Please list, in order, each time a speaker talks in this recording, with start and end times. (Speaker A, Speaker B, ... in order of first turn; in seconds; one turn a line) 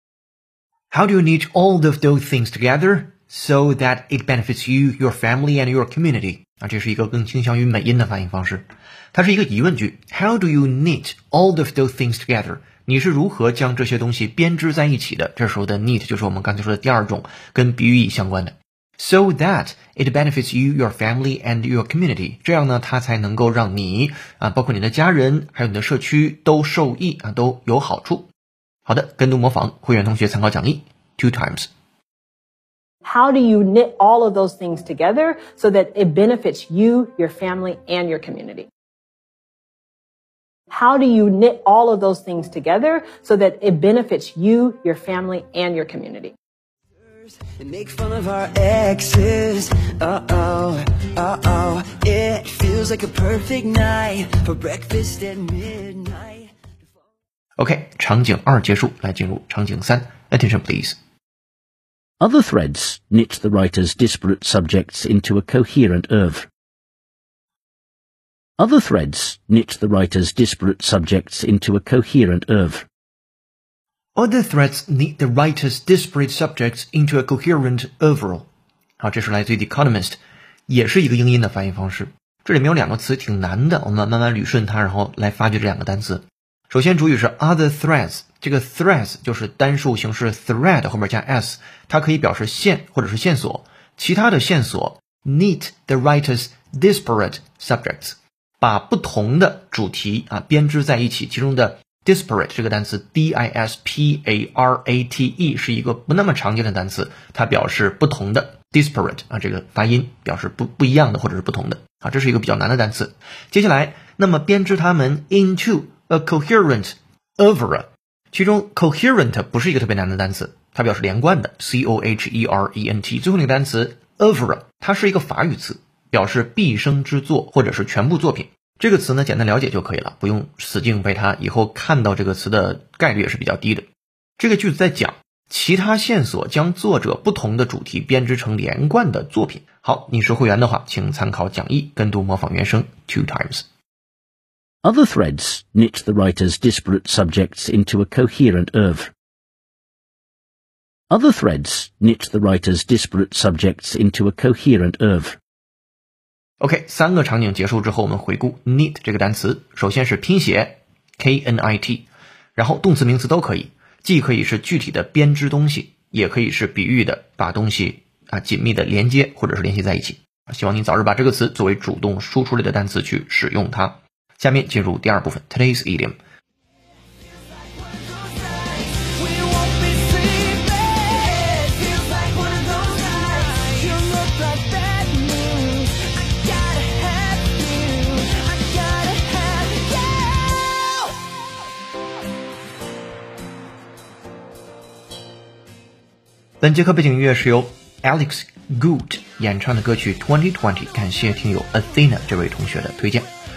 Speaker A: 0.9-28.3
Speaker A: 28.9-31.7
Speaker B: 33.0-38.7
Speaker B: 40.7-46.4
Speaker C: 46.9-57.0
Speaker A: 57.6-61.0
Speaker D: 62.2-66.5
Speaker D: 68.6-72.9
Speaker A: 74.2-78.5
Speaker A: 79.0-80.2
Speaker A: 80.7-133.9
Speaker A: 134.4-143.7
Speaker D: 144.8-149.1
Speaker D: 151.1-155.4
Speaker A: 156.6-176.2
Speaker C: 179.1-185.6
Speaker C: 186.5-190.9
Speaker A: 196.6-203.3